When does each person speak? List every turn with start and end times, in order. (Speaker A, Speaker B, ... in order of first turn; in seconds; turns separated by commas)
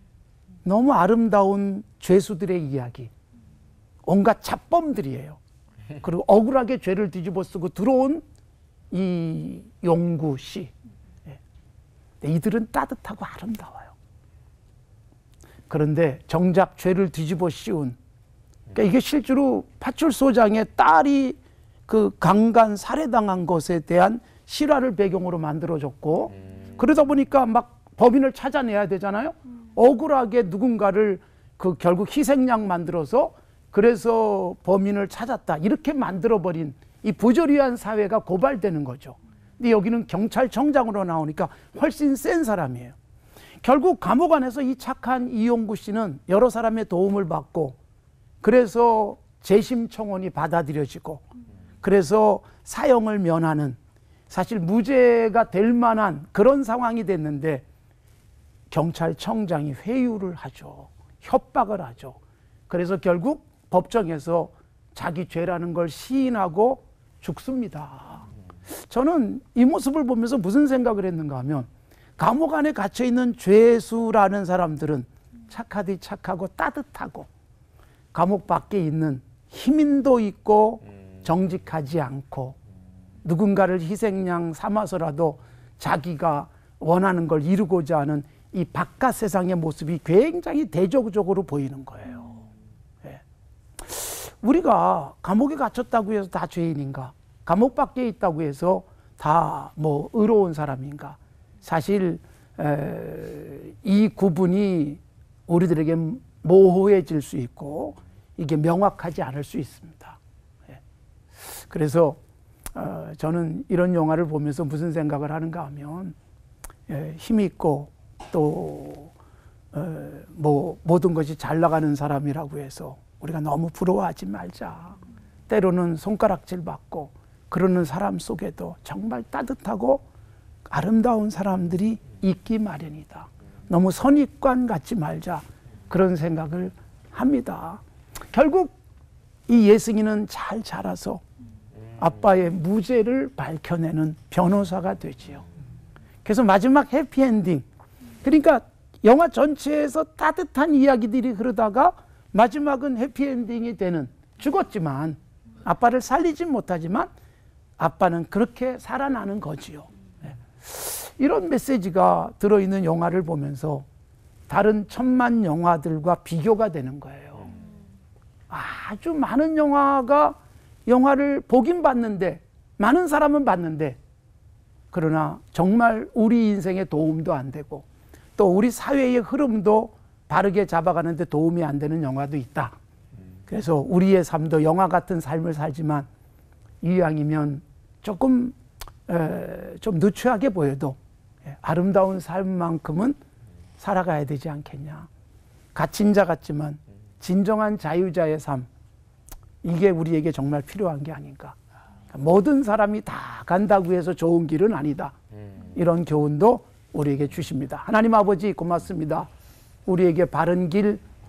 Speaker A: 0.6-3.1, Speaker A: 4.0-5.4, Speaker A: 5.9-8.2, Speaker A: 8.9-10.7, Speaker A: 12.2-13.9, Speaker A: 15.7-17.9, Speaker A: 18.7-42.9, Speaker A: 43.6-47.8, Speaker A: 48.4-51.2, Speaker A: 51.8-53.8, Speaker A: 54.3-57.6, Speaker A: 58.7-62.2, Speaker A: 62.7-77.3, Speaker A: 78.1-82.6, Speaker A: 83.2-92.5, Speaker A: 93.8-110.2, Speaker A: 111.4-112.2, Speaker A: 112.7-116.1, Speaker A: 116.9-119.1, Speaker A: 119.7-130.0, Speaker A: 130.7-138.8, Speaker A: 139.5-141.2, Speaker A: 142.0-145.4, Speaker A: 146.2-147.6, Speaker A: 148.2-157.1, Speaker A: 157.8-159.9, Speaker A: 160.4-163.8, Speaker A: 164.5-167.5, Speaker A: 168.5-174.0, Speaker A: 174.9-177.8, Speaker A: 178.4-182.8, Speaker A: 183.5-186.1, Speaker A: 186.8-188.6, Speaker A: 189.1-193.2, Speaker A: 193.8-195.1, Speaker A: 195.7-198.7, Speaker A: 199.6-201.6, Speaker A: 202.1-209.3, Speaker A: 209.8-211.0